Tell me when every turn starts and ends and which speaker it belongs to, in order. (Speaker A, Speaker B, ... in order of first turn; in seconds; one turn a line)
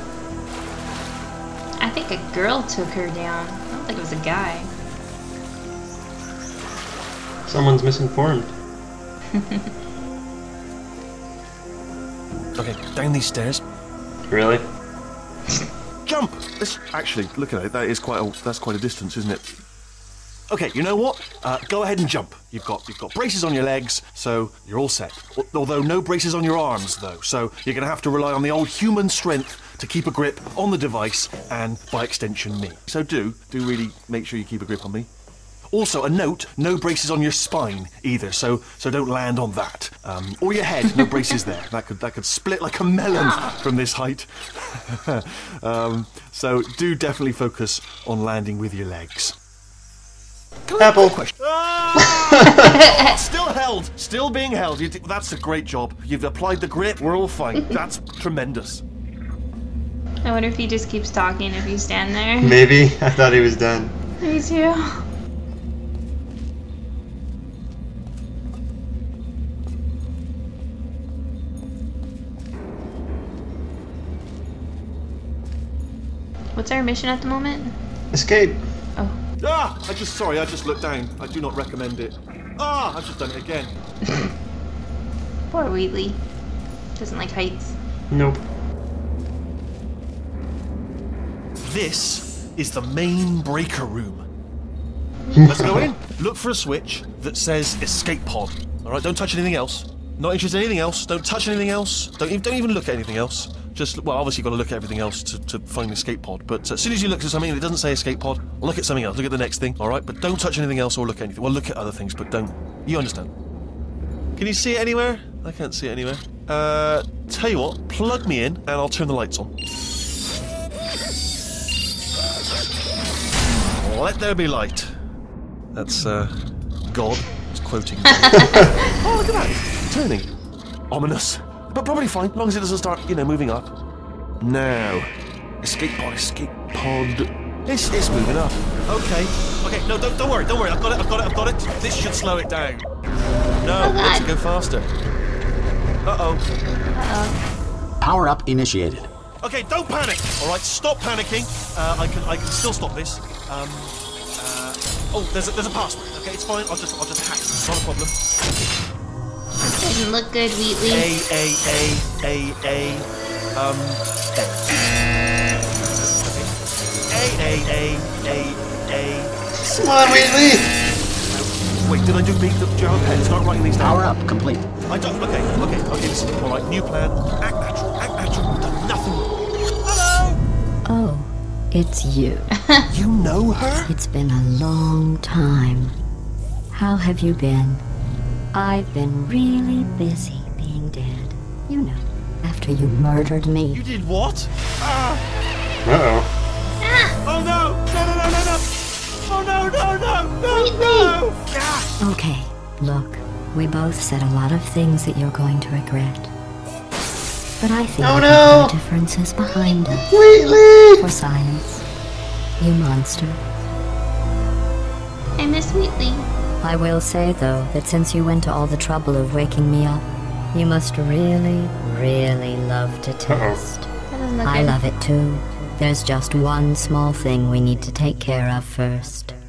Speaker A: 1.8-4.7
Speaker B: 7.5-8.5
Speaker A: 9.4-9.6
Speaker C: 12.6-13.6
Speaker B: 14.3-14.6
Speaker C: 16.1-19.6
Speaker C: 20.5-35.1
Speaker C: 35.7-49.4
Speaker C: 50.7-58.8
Speaker B: 50.8-51.2
Speaker B: 52.1-52.7
Speaker A: 52.5-53.0
Speaker A: 60.2-62.6
Speaker B: 62.4-63.9
Speaker A: 64.2-65.0
Speaker A: 76.5-77.7
Speaker B: 78.1-78.6
Speaker C: 79.4-83.8
Speaker A: 85.5-86.2
Speaker A: 87.0-87.7
Speaker B: 88.1-88.4
Speaker C: 91.5-94.2
Speaker B: 95.4-95.9
Speaker C: 95.4-113.3
Speaker C: 114.3-119.5
Speaker C: 123.8-124.9
Speaker C: 125.7-126.3
Speaker C: 126.9-130.3
Speaker A: 128.2-128.8
Speaker C: 130.9-133.7
Speaker C: 134.4-135.1
Speaker C: 135.6-142.9
Speaker C: 143.6-144.9
Speaker A: 143.8-144.3
Speaker C: 146.0-146.4
Speaker A: 146.9-147.3
Speaker D: 148.0-149.1
Speaker C: 149.4-158.2
Speaker A: 159.6-161.1
Speaker C: 160.8-164.9
Speaker C: 165.5-166.5
Speaker C: 167.1-169.3
Speaker B: 169.6-170.7
Speaker C: 170.0-170.6
Speaker C: 171.1-174.0
Speaker D: 173.8-174.7
Speaker C: 174.9-179.3
Speaker C: 179.8-180.4
Speaker E: 180.8-182.5
Speaker C: 182.9-183.9
Speaker E: 183.8-185.9
Speaker E: 186.7-187.8
Speaker E: 188.5-193.8
Speaker C: 193.7-195.2
Speaker B: 195.8-196.3
Speaker A: 196.8-197.1
Speaker C: 197.2-198.7
Speaker C: 199.2-201.9
Speaker A: 200.5-201.2
Speaker E: 202.0-206.3
Speaker E: 207.6-210.1
Speaker B: 208.0-208.8
Speaker B: 210.1-211.1
Speaker E: 211.0-211.8
Speaker E: 212.6-213.4
Speaker A: 215.4-216.3
Speaker E: 216.6-223.9
Speaker B: 223.3-223.6
Speaker A: 224.1-224.8
Speaker E: 224.4-229.3